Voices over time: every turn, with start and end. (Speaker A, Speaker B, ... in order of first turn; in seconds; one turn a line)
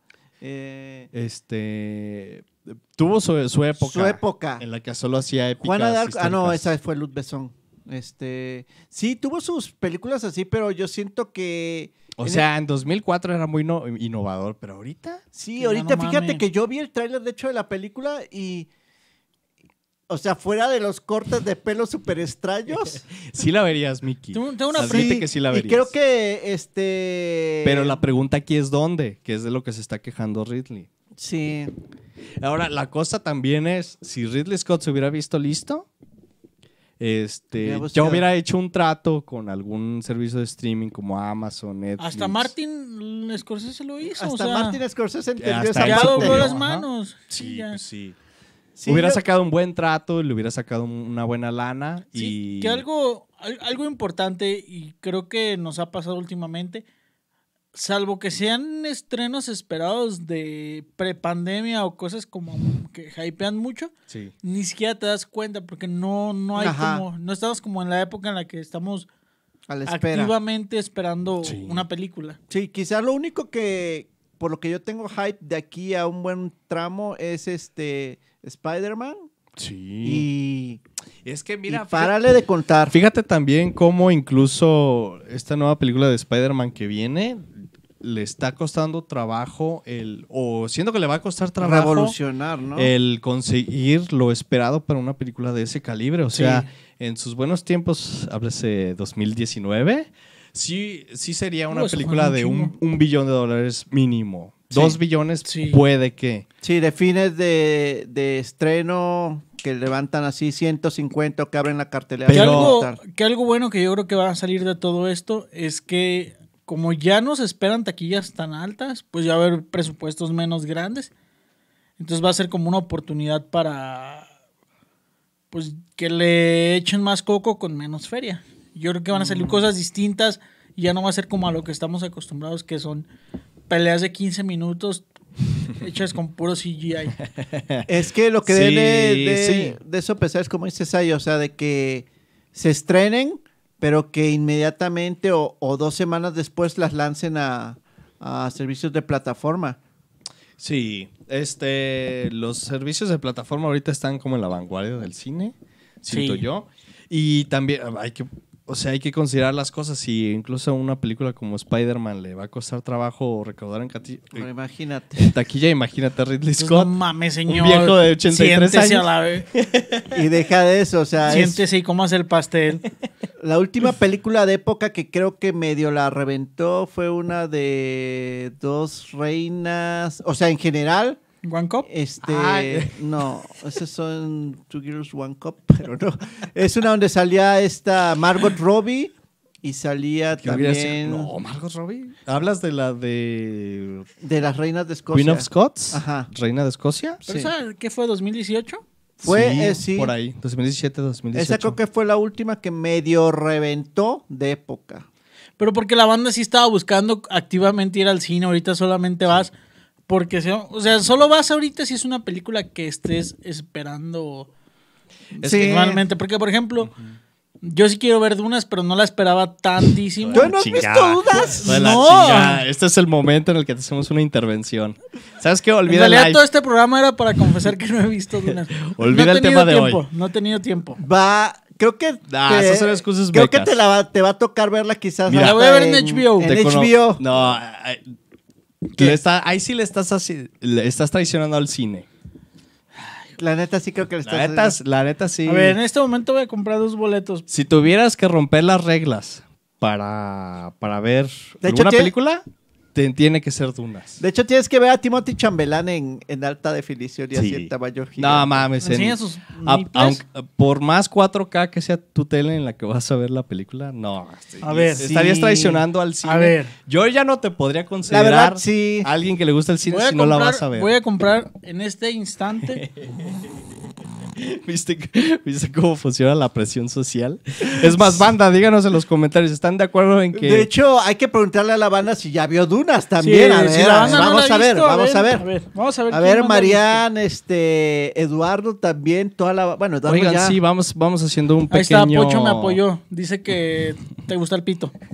Speaker A: 0.4-1.1
Speaker B: 1.1-6.7
Speaker A: 3.8-4.6
Speaker A: 5.6-12.4
Speaker B: 12.2-15.2
Speaker A: 15.3-18.7
Speaker C: 15.6-16.4
Speaker A: 20.1-23.0
Speaker B: 23.1-25.9
Speaker C: 24.3-25.1
Speaker A: 24.9-28.0
Speaker B: 27.6-30.9
Speaker A: 31.2-31.7
Speaker B: 32.4-35.9
Speaker B: 37.0-42.5
Speaker A: 37.6-38.3
Speaker C: 42.0-44.8
Speaker A: 44.2-46.5
Speaker B: 45.4-48.1
Speaker C: 45.8-47.8
Speaker A: 48.8-49.2
Speaker B: 48.9-52.8
Speaker C: 52.1-56.8
Speaker C: 57.7-63.9
Speaker B: 64.1-64.3
Speaker C: 64.4-69.1
Speaker A: 66.5-67.0
Speaker A: 69.7-70.3
Speaker C: 69.9-72.4
Speaker B: 71.4-71.8
Speaker A: 72.5-79.2
Speaker B: 79.6-80.2
Speaker A: 80.0-80.8
Speaker B: 81.2-82.2
Speaker A: 81.7-83.0
Speaker B: 82.9-92.1
Speaker A: 91.6-92.9
Speaker B: 92.8-106.4
Speaker C: 96.3-96.7
Speaker C: 101.7-102.7
Speaker A: 104.7-105.0
Speaker C: 105.4-105.8
Speaker A: 106.6-113.0
Speaker B: 112.2-112.8
Speaker C: 112.3-121.1
Speaker C: 122.0-124.3
Speaker C: 125.5-133.1
Speaker A: 129.1-129.6
Speaker C: 133.7-135.1
Speaker C: 135.7-137.2
Speaker B: 137.4-137.9
Speaker A: 137.9-149.8
Speaker B: 138.4-139.8
Speaker B: 150.6-164.5
Speaker C: 156.1-156.4
Speaker A: 164.3-165.3
Speaker B: 165.2-166.9
Speaker C: 166.6-169.5
Speaker B: 167.4-170.2
Speaker A: 170.1-171.6
Speaker C: 171.2-172.8
Speaker A: 173.4-181.2
Speaker C: 181.4-181.9
Speaker A: 181.8-191.3
Speaker B: 182.2-183.2
Speaker B: 190.4-194.1
Speaker A: 194.2-196.3
Speaker B: 195.1-197.2
Speaker A: 197.2-197.5
Speaker C: 197.2-198.8
Speaker B: 199.2-201.8
Speaker A: 199.2-200.1
Speaker A: 201.3-205.1
Speaker C: 205.6-209.5
Speaker C: 210.1-214.5
Speaker A: 215.4-216.0
Speaker C: 215.4-216.9
Speaker C: 217.6-220.5
Speaker B: 220.2-226.4
Speaker A: 220.3-221.8
Speaker C: 221.3-222.6
Speaker C: 225.9-231.0
Speaker B: 228.8-230.0
Speaker A: 231.0-237.2
Speaker B: 232.3-233.8
Speaker B: 235.3-235.6
Speaker C: 235.4-236.6
Speaker B: 236.4-238.0
Speaker B: 238.9-242.1
Speaker A: 243.4-244.8
Speaker B: 244.2-245.8
Speaker C: 245.4-247.4
Speaker B: 247.5-252.4
Speaker A: 251.6-252.1
Speaker B: 252.9-254.2
Speaker A: 254.2-258.6
Speaker B: 257.3-270.9
Speaker C: 258.8-260.2
Speaker C: 264.6-265.1
Speaker A: 265.0-265.8
Speaker C: 266.2-266.7
Speaker A: 268.1-269.1
Speaker C: 269.9-272.8
Speaker B: 272.8-273.4
Speaker B: 274.3-280.7
Speaker A: 280.3-285.4
Speaker C: 283.2-287.0
Speaker A: 286.1-290.6
Speaker B: 290.1-292.8
Speaker C: 291.7-294.9